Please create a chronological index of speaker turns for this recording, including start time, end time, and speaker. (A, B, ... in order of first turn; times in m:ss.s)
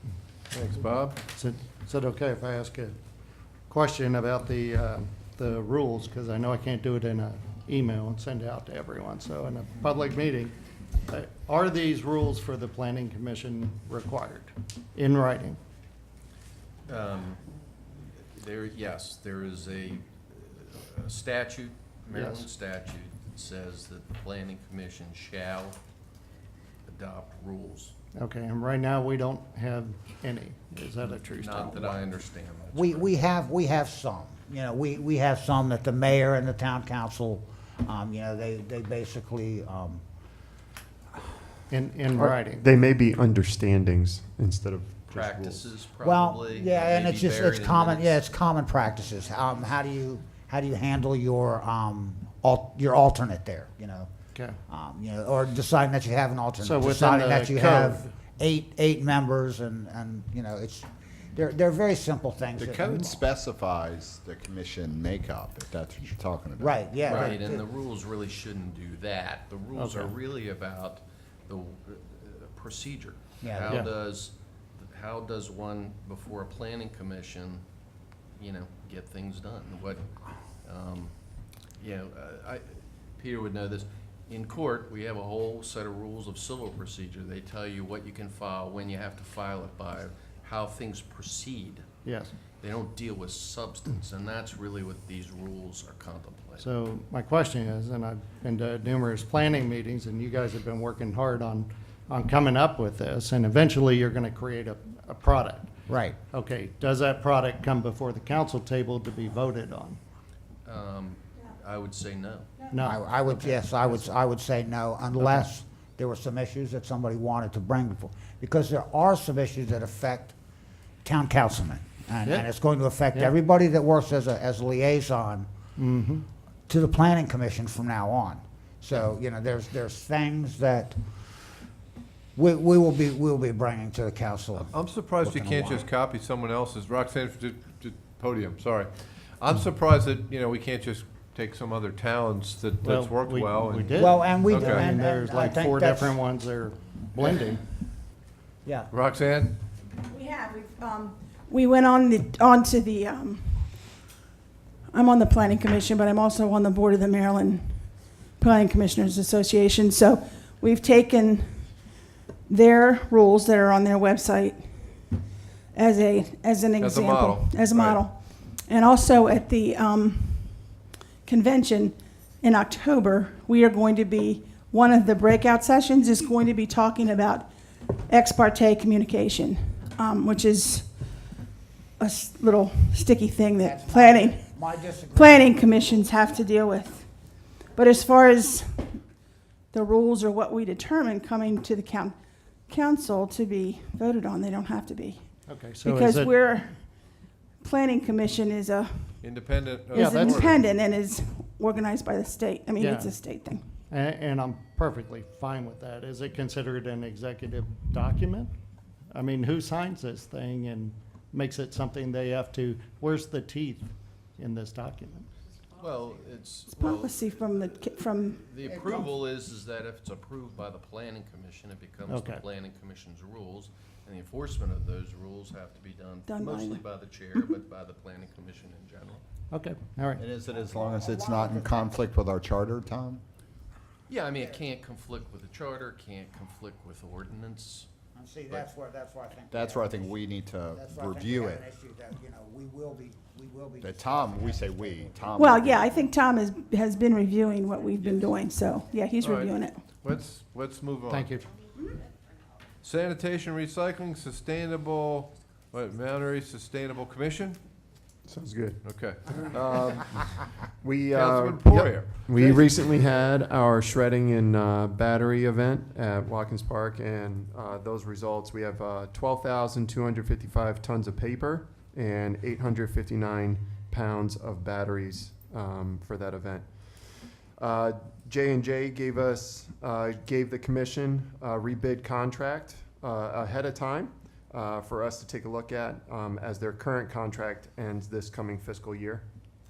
0:00.5-0:01.2 A
0:01.3-0:03.0 B
0:03.7-0:10.5 B
0:11.1-0:15.6 B
0:16.9-0:17.4 C
0:18.3-0:25.8 C
0:22.1-0:22.5 B
0:26.8-0:27.9 C
0:28.2-0:31.9 B
0:31.3-0:33.1 C
0:32.7-0:40.0 D
0:41.7-0:42.6 B
0:42.2-0:45.6 E
0:45.1-0:48.2 C
0:46.0-0:54.1 D
0:54.7-1:03.2 D
0:56.6-0:58.1 B
1:02.6-1:07.2 F
1:06.6-1:07.6 D
1:07.0-1:17.6 C
1:09.7-1:10.2 B
1:13.4-1:13.8 D
1:18.4-1:20.0 C
1:20.6-1:21.1 C
1:21.8-1:31.8 C
1:32.0-1:32.3 B
1:32.6-1:36.7 C
1:36.6-1:45.7 B
1:45.9-1:46.2 D
1:46.3-1:50.0 B
1:50.6-1:52.6 C
1:52.7-1:54.1 B
1:52.8-2:00.4 D
2:01.0-2:05.5 D
2:05.8-2:06.2 B
2:06.7-2:11.0 D
2:12.4-2:15.8 D
2:14.7-2:24.9 A
2:22.8-2:27.6 B
2:24.0-2:26.2 D
2:28.6-2:28.9 D
2:28.9-2:29.5 A
2:30.1-2:33.7 G
2:34.9-2:41.8 G
2:42.5-2:45.1 G
2:45.7-3:00.9 G
2:46.8-2:48.0 A
3:02.0-3:04.5 G
3:03.6-3:06.0 D
3:05.1-3:07.1 G
3:07.7-3:09.0 G
3:09.7-3:12.2 G
3:12.7-3:15.2 G
3:15.5-3:16.3 B
3:15.8-3:16.8 G
3:17.6-3:19.2 G
3:19.2-3:20.7 A
3:19.9-3:23.6 G
3:19.9-3:20.4 B
3:22.8-3:23.1 B
3:23.9-3:28.5 B
3:29.1-3:35.3 B
3:35.8-3:49.2 C
3:36.8-3:38.4 G
3:42.1-3:42.4 B
3:46.3-3:46.8 G
3:49.5-3:50.3 B
3:50.2-3:53.2 F
3:50.5-3:52.0 D
3:54.1-3:57.9 C
3:58.1-4:05.3 D
3:59.5-4:01.6 F
4:03.8-4:06.0 F
4:05.3-4:09.8 G
4:09.2-4:11.3 A
4:11.1-4:11.5 B
4:12.8-4:17.6 A
4:18.3-4:18.8 E
4:18.8-4:20.4 A
4:20.8-4:49.2 E
4:21.1-4:22.9 A